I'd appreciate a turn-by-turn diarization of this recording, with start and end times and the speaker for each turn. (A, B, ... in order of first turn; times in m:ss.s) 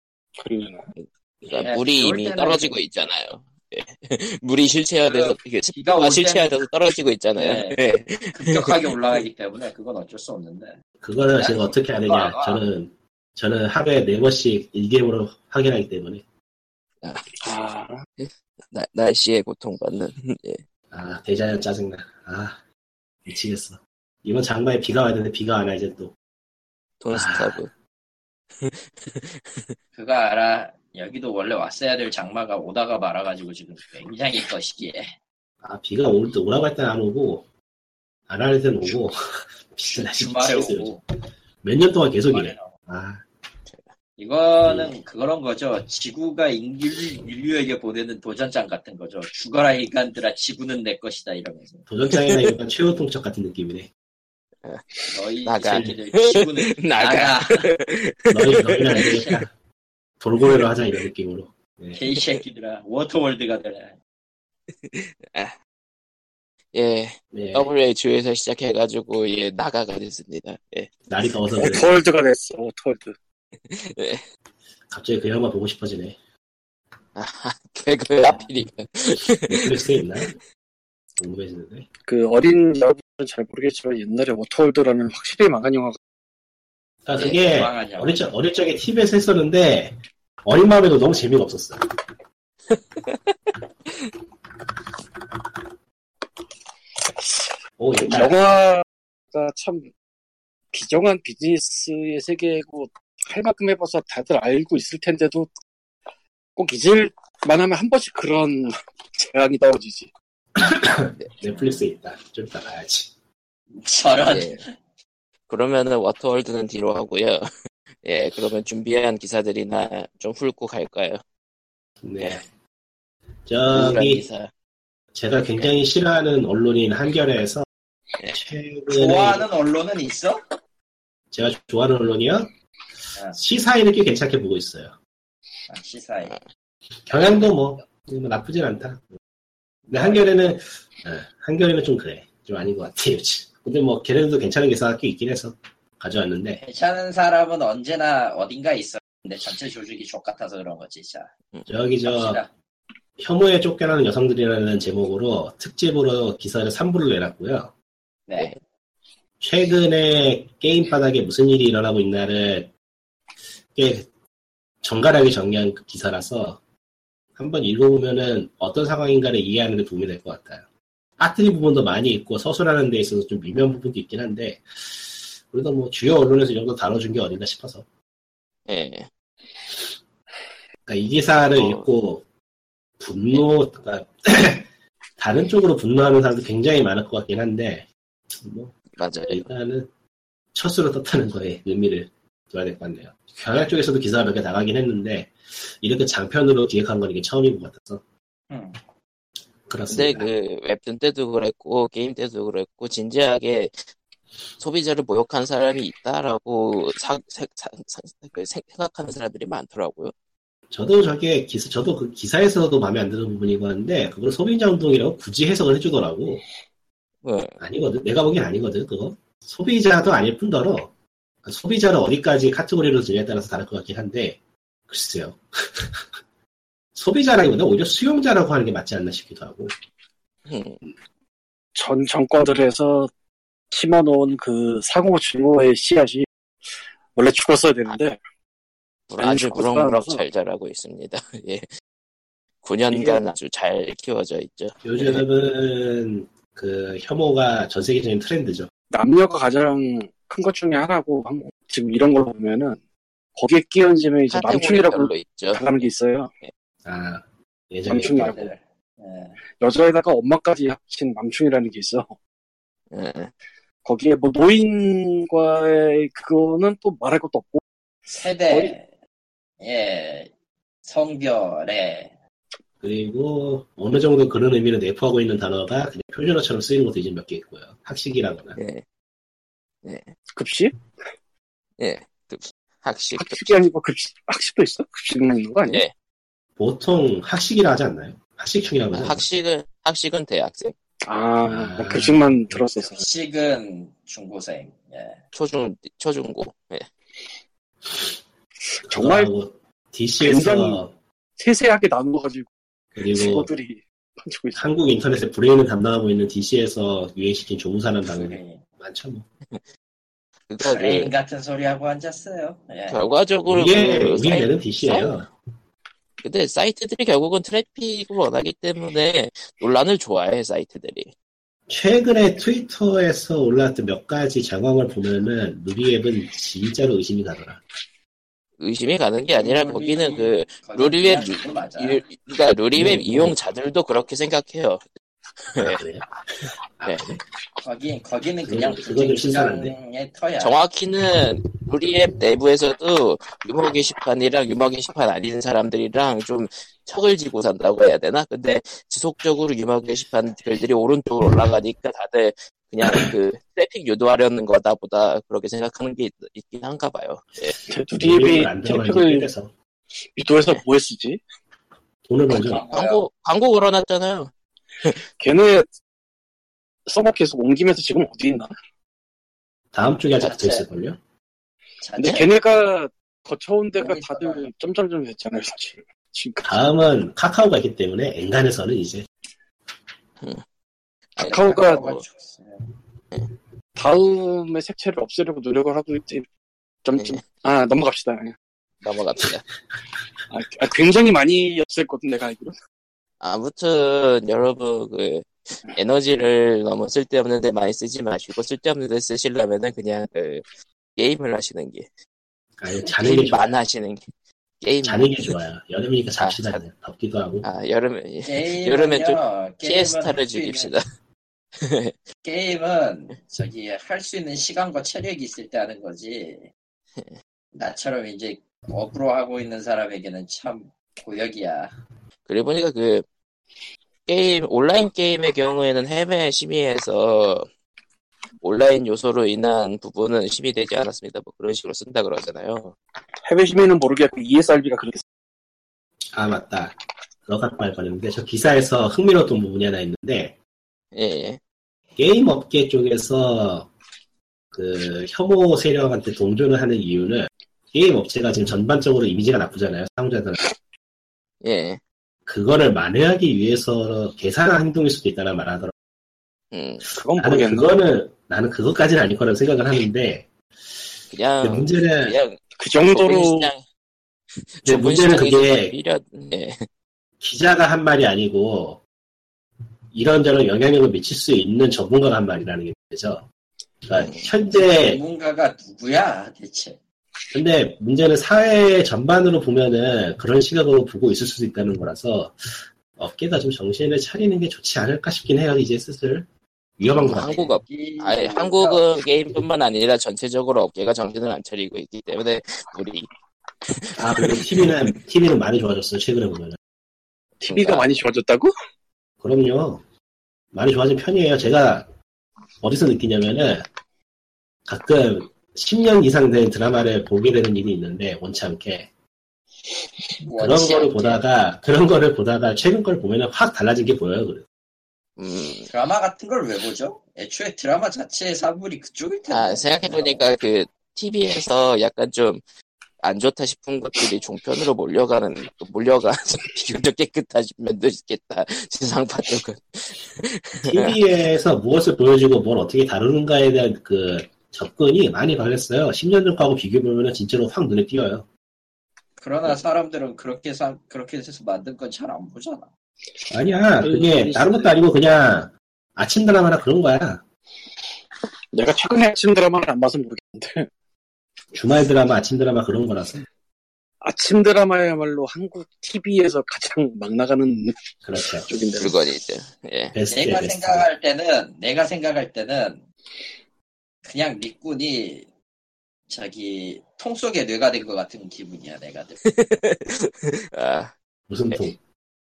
0:00.4-0:00.9 A
0:01.0-0:09.2 B
0:01.5-0:02.8 C
0:05.0-0:06.6 C
0:07.4-0:07.8 C
0:08.3-0:10.7 C
0:11.0-0:16.2 D
0:11.4-0:12.6 C
0:17.4-0:18.0 A
0:18.2-0:20.6 B
0:20.9-0:22.6 D
0:23.2-0:26.1 D
0:27.0-0:27.7 B
0:27.1-0:27.6 D
0:28.6-0:29.8 B
0:29.9-0:35.1 C
0:35.6-0:37.4 D
0:38.3-0:39.2 D
0:39.7-0:41.0 D
0:39.9-0:41.0 C
0:41.6-0:43.2 D
0:42.3-0:42.7 C
0:44.2-0:51.8 C
0:44.6-0:45.0 D
0:51.9-0:53.9 D
0:52.1-0:52.5 B
0:55.1-0:57.7 C
0:55.4-0:59.2 B
0:58.3-0:59.5 D
0:58.9-0:59.4 C
1:00.2-1:02.0 D
1:01.9-1:04.0 C
1:04.8-1:05.5 B
1:06.7-1:10.9 B
1:07.3-1:07.7 D
1:11.1-1:11.9 D
1:11.6-1:13.1 A
1:13.7-1:14.2 B
1:14.9-1:16.2 D
1:17.2-1:19.8 B
1:19.5-1:20.4 D
1:21.2-1:21.9 D
1:22.1-1:26.0 A
1:27.0-1:31.8 D
1:27.2-1:28.2 C
1:32.7-1:33.5 B
1:37.8-1:38.4 D
1:38.0-1:39.9 A
1:40.7-1:45.5 A
1:46.6-1:50.1 A
1:50.6-1:53.1 D
1:51.5-1:51.8 C
1:53.7-1:54.7 C
1:54.3-1:54.6 B
1:55.5-1:57.5 B
1:58.0-2:01.2 B
2:02.0-2:02.4 D
2:03.4-2:04.2 D
2:03.7-2:04.5 B
2:05.1-2:07.6 D
2:08.3-2:09.5 D
2:08.9-2:10.4 C
2:11.3-2:12.5 D
2:13.3-2:14.9 D
2:15.7-2:16.4 C
2:17.1-2:19.2 D
2:19.9-2:26.6 D
2:19.9-2:20.4 C
2:26.6-2:31.3 C
2:31.7-2:32.4 D
2:32.0-2:32.5 C
2:33.2-2:37.7 D
2:38.3-2:38.6 C
2:39.4-2:42.7 D
2:43.7-2:44.1 D
2:44.8-2:46.6 D
2:47.4-2:50.6 D
2:51.2-2:54.6 D
2:55.5-2:57.8 D
2:58.7-2:59.1 B
3:00.8-3:02.2 D
3:01.6-3:01.9 B
3:03.0-3:04.7 D
3:05.2-3:08.7 D
3:09.0-3:09.4 B
3:09.3-3:09.9 D
3:10.5-3:18.0 D
3:18.5-3:18.8 C
3:19.7-3:20.3 D
3:19.9-3:23.7 B
3:24.6-3:30.1 B
3:30.7-3:36.5 D
3:37.2-3:37.6 B
3:37.6-3:40.9 D
3:41.4-3:46.0 D
3:46.9-3:49.7 D
3:50.5-3:50.8 B
3:51.7-3:53.1 A
3:53.7-3:56.3 A
3:57.1-3:58.2 A
3:59.1-4:01.7 B
3:59.2-4:00.2 A
4:02.6-4:05.2 B
4:02.9-4:03.2 A
4:04.8-4:08.7 D
4:08.9-4:12.8 A
4:13.4-4:16.3 A
4:14.3-4:15.6 B
4:16.8-4:18.4 D
4:17.8-4:18.5 A
4:18.0-4:19.4 C
4:19.6-4:22.1 A
4:22.9-4:23.3 B
4:23.8-4:27.6 A
4:28.1-4:28.8 C
4:28.4-4:28.7 A
4:29.6-4:30.3 C
4:30.8-4:32.1 C
4:32.8-4:38.6 D
4:38.6-4:38.8 B
4:39.8-4:40.1 B
4:40.3-4:40.7 A
4:41.8-4:43.4 B
4:43.2-4:45.8 A
4:45.7-4:45.9 B
4:46.6-4:49.2 D
4:48.9-4:50.7 B
4:51.0-4:53.0 A
4:51.5-4:52.6 D
4:53.0-4:55.2 C
4:55.3-4:56.9 B
4:58.7-4:59.3 A
4:58.8-5:00.9 D
5:00.2-5:00.8 A
5:01.4-5:02.5 A
5:02.9-5:03.5 D
5:03.1-5:04.6 A
5:04.6-5:09.2 D
5:08.1-5:08.6 C
5:10.5-5:11.1 B
5:10.6-5:13.0 C
5:12.9-5:15.2 B
5:13.4-5:15.3 D
5:16.2-5:21.1 B
5:21.7-5:27.6 D
5:28.6-5:34.8 B
5:29.3-5:32.0 C
5:32.8-5:33.3 D
5:35.5-5:35.8 B
5:35.6-5:37.2 D
5:37.6-5:40.6 C
5:38.4-5:39.7 D
5:40.4-5:57.6 B
5:57.7-5:59.3 A
5:58.0-5:59.5 D
6:00.1-6:01.2 A
6:02.1-6:02.6 D
6:02.3-6:03.1 C
6:02.3-6:04.3 B
6:05.2-6:05.7 A
6:06.9-6:08.5 A
6:09.7-6:11.0 D
6:10.2-6:10.6 C
6:11.8-6:12.3 C
6:12.0-6:16.6 A
6:13.8-6:14.5 C
6:16.4-6:19.1 D
6:21.2-6:22.0 B
6:21.2-6:21.9 A
6:21.2-6:22.6 C
6:23.8-6:26.3 A
6:26.8-6:28.4 A
6:27.0-6:27.2 B
6:28.8-6:29.4 B
6:30.3-6:32.5 A
6:33.2-6:40.4 B
6:41.0-6:41.9 B
6:42.6-6:43.5 D
6:42.8-6:44.0 B
6:44.6-6:45.3 B
6:44.8-6:47.5 D
6:46.2-6:46.6 B
6:47.4-6:50.8 B
6:48.2-6:50.7 C
6:51.6-6:52.0 B
6:52.2-6:56.5 C
6:57.5-7:01.7 C
7:02.3-7:03.0 B
7:04.1-7:07.5 B
7:08.4-7:12.7 B
7:13.2-7:15.0 A
7:16.1-7:16.8 D
7:17.3-7:20.3 D
7:20.9-7:21.4 B
7:22.0-7:23.7 D
7:24.5-7:30.4 D
7:31.4-7:31.8 B
7:32.2-7:35.7 D
7:36.5-7:36.8 B
7:37.0-7:37.7 A
7:37.2-7:40.3 D
7:41.1-7:43.6 B
7:41.4-7:42.2 D
7:42.6-7:43.5 A
7:44.5-7:46.7 B
7:44.6-7:45.7 D
7:47.2-7:48.8 D
7:49.9-7:53.2 D
7:53.8-7:55.0 D
7:53.9-7:54.3 B
7:54.6-7:56.8 C
7:57.3-8:06.3 D
8:06.8-8:07.5 D
8:06.9-8:13.1 B
8:07.6-8:08.8 C
8:13.7-8:14.9 B
8:13.9-8:16.6 D
8:17.4-8:18.5 A
8:17.4-8:17.9 B
8:19.2-8:19.8 D
8:20.5-8:21.9 D
8:22.6-8:23.6 D
8:24.7-8:28.9 D
8:30.2-8:31.2 C
8:30.4-8:34.4 D
8:35.2-8:35.7 B
8:35.7-8:40.2 C
8:39.3-8:42.4 B
8:43.0-8:51.0 B
8:50.6-8:58.2 D
8:59.2-9:02.7 C
9:03.3-9:07.2 D
9:03.8-9:04.7 A
9:08.5-9:10.7 A
9:11.5-9:13.2 D
9:14.0-9:17.8 A
9:18.0-9:18.5 D
9:18.4-9:18.9 A
9:18.8-9:19.9 B
9:19.9-9:20.9 D
9:20.1-9:22.8 C
9:24.0-9:25.3 C
9:26.1-9:29.2 C
9:29.2-9:30.9 B
9:31.3-9:31.8 D